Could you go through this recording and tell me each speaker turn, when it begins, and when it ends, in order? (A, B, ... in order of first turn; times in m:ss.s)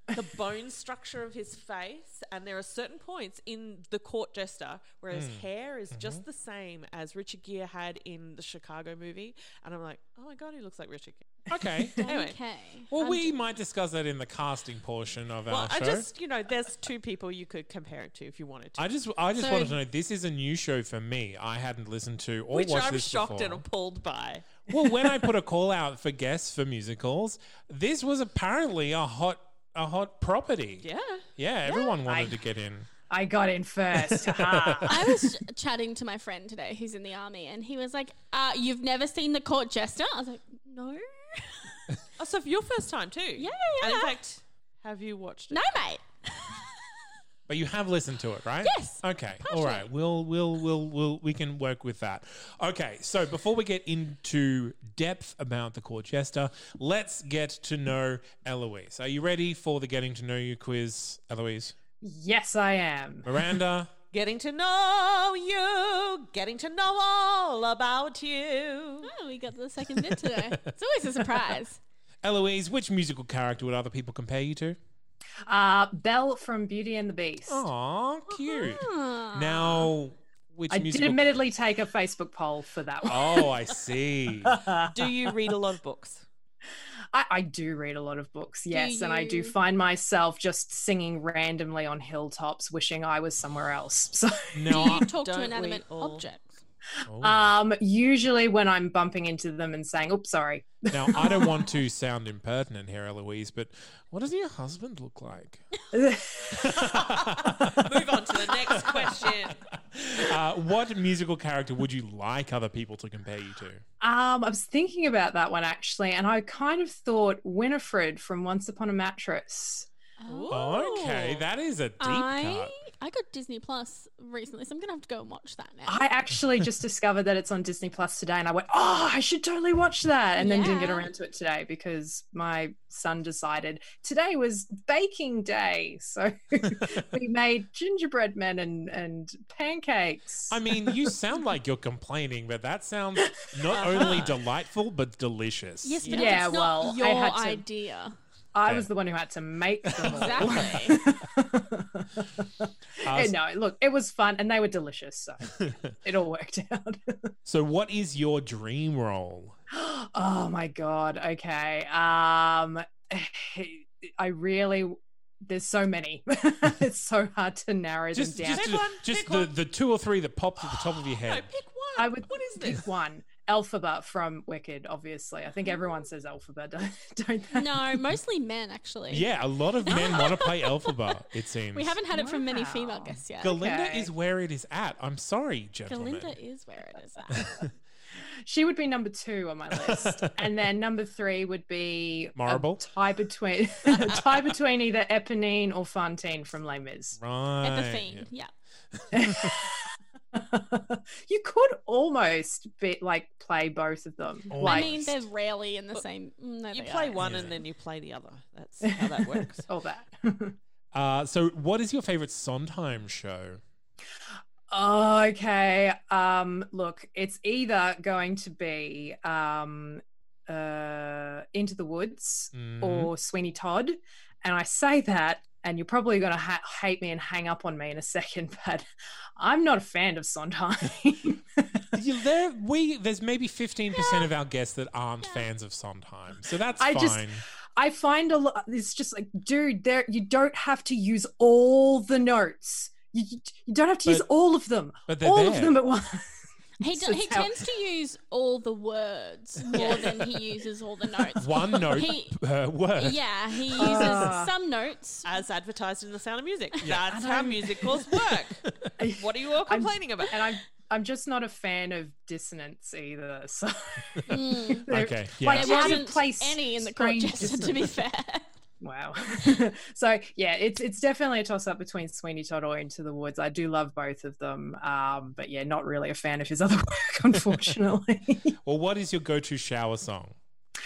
0:00.1-0:11.4 A
0:05.1-0:06.2 B
0:11.5-0:12.1 B
0:12.0-0:13.3 C
0:12.0-0:12.4 A
0:12.9-0:16.1 B
0:15.5-0:18.9 A
0:18.8-0:23.6 B
0:19.4-0:19.8 C
0:22.5-0:24.6 A
0:24.7-0:32.9 B
0:30.8-0:31.3 A
0:31.7-0:31.9 C
0:32.1-0:32.4 D
0:33.1-0:35.2 D
0:34.1-0:35.1 B
0:34.9-0:41.8 C
0:42.2-0:45.6 A
0:43.4-0:44.2 C
0:45.5-0:46.9 C
0:47.5-1:01.8 B
0:48.6-0:49.9 C
1:02.0-1:03.3 D
1:03.2-1:03.9 B
1:04.1-1:09.1 A
1:09.0-1:11.8 C
1:10.0-1:10.7 B
1:12.2-1:14.8 B
1:15.5-1:17.6 D
1:17.5-1:21.3 B
1:18.3-1:19.9 C
1:20.7-1:23.5 D
1:23.1-1:24.6 B
1:24.4-1:24.9 D
1:24.8-1:26.3 A
1:27.1-1:35.0 D
1:28.7-1:29.6 C
1:34.5-1:35.1 B
1:34.7-1:36.6 C
1:35.2-1:36.2 A
1:37.1-1:37.5 B
1:37.2-1:41.6 D
1:40.9-1:45.6 B
1:45.9-1:47.0 D
1:46.5-1:48.0 B
1:46.8-1:49.6 A
1:48.6-1:53.8 B
1:54.0-2:00.5 D
2:00.2-2:00.9 C
2:00.3-2:01.4 A
2:00.5-2:02.7 B
2:02.0-2:06.0 C
2:05.9-2:21.1 D
2:10.4-2:11.1 C
2:20.5-2:26.1 B
2:23.3-2:24.1 D
2:23.7-2:24.4 A
2:25.8-2:28.2 C
2:26.0-2:26.4 A
2:26.1-2:27.6 D
2:28.5-2:37.3 D
2:29.9-2:31.0 B
2:30.0-2:31.0 C
2:33.0-2:33.4 B
2:35.5-2:35.8 B
2:37.5-2:39.6 B
2:39.7-2:48.8 D
2:48.1-2:51.5 B
2:48.4-2:49.6 A
2:50.9-2:52.8 A
2:52.0-2:57.9 D
2:57.5-3:01.0 C
2:59.1-3:02.0 B
3:01.7-3:03.6 C
3:02.1-3:04.1 D
3:03.4-3:06.4 B
3:05.9-3:07.7 C
3:07.3-3:07.6 B
3:08.4-3:17.2 D
3:09.8-3:10.2 B
3:12.4-3:12.8 B
3:17.2-3:18.3 B
3:17.6-3:18.5 C
3:19.0-3:19.7 B
3:19.1-3:25.2 D
3:24.5-3:25.1 B
3:24.6-3:27.5 C
3:26.7-3:29.7 A
3:27.2-3:27.6 B
3:28.8-3:30.6 D
3:30.9-3:33.6 B
3:34.7-3:48.8 D
3:42.5-3:43.1 B
3:49.4-3:51.9 D
3:52.0-3:57.4 B
3:53.9-3:54.3 C
3:55.2-3:55.5 C
3:56.8-4:06.3 D
4:05.1-4:05.8 B
4:06.8-4:07.6 D
4:06.8-4:12.4 C
4:09.7-4:10.1 A
4:11.4-4:14.3 B
4:13.0-4:15.3 C
4:13.8-4:14.5 D
4:15.2-4:20.4 A
4:16.8-4:17.1 B
4:17.1-4:17.9 D
4:19.0-4:28.0 D
4:24.3-4:24.9 C
4:24.9-4:26.0 B
4:25.5-4:28.5 C
4:28.8-4:38.5 D
4:38.6-4:40.4 B